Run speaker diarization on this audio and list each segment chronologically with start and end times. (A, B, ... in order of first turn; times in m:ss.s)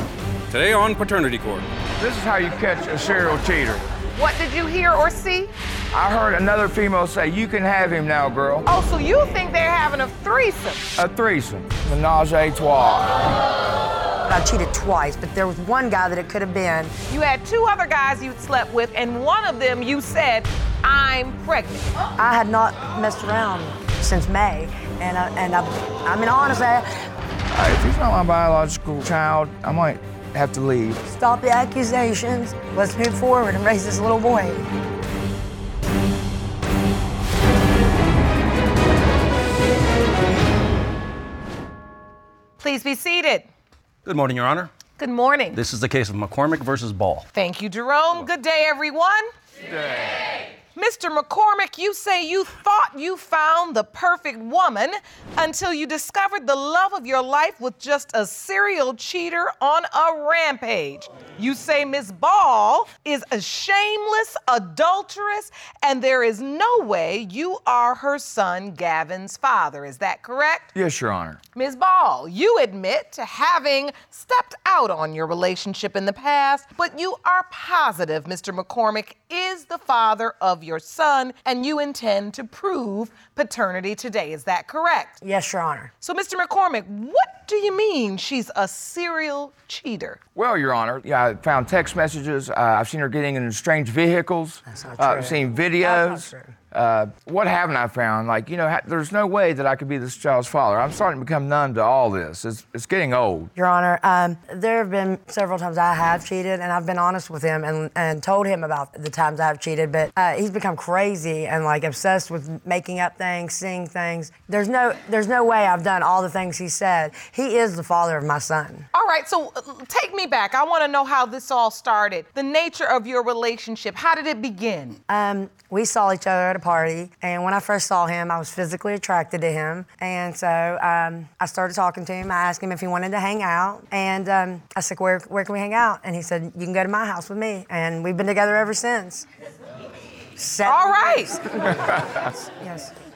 0:00.5-0:01.7 A
0:02.0-0:03.8 B
0:04.1-0:05.5 C
0:05.9-0:08.7 B
0:08.6-0:10.9 C
0:11.0-0:13.2 B
0:14.3-0:16.9 D
0:17.1-0:21.9 C
0:22.2-0:26.9 D
0:27.5-0:31.0 B
0:31.1-0:34.7 D
0:42.6-0:43.4 C
0:44.0-0:44.7 A
0:45.0-0:45.6 C
0:45.5-0:47.2 A
0:47.3-0:49.2 C
0:49.7-0:50.2 B
0:50.7-1:10.7 C
1:10.7-1:11.4 B
1:11.5-1:25.2 C
1:25.2-1:25.9 D
1:26.0-1:30.2 C
1:30.3-1:43.5 B
1:34.6-1:36.5 D
1:43.6-1:58.9 D
1:58.9-2:05.0 C
2:05.1-2:19.2 D
2:20.4-2:22.9 D
2:20.6-2:21.4 C
2:21.8-2:22.2 B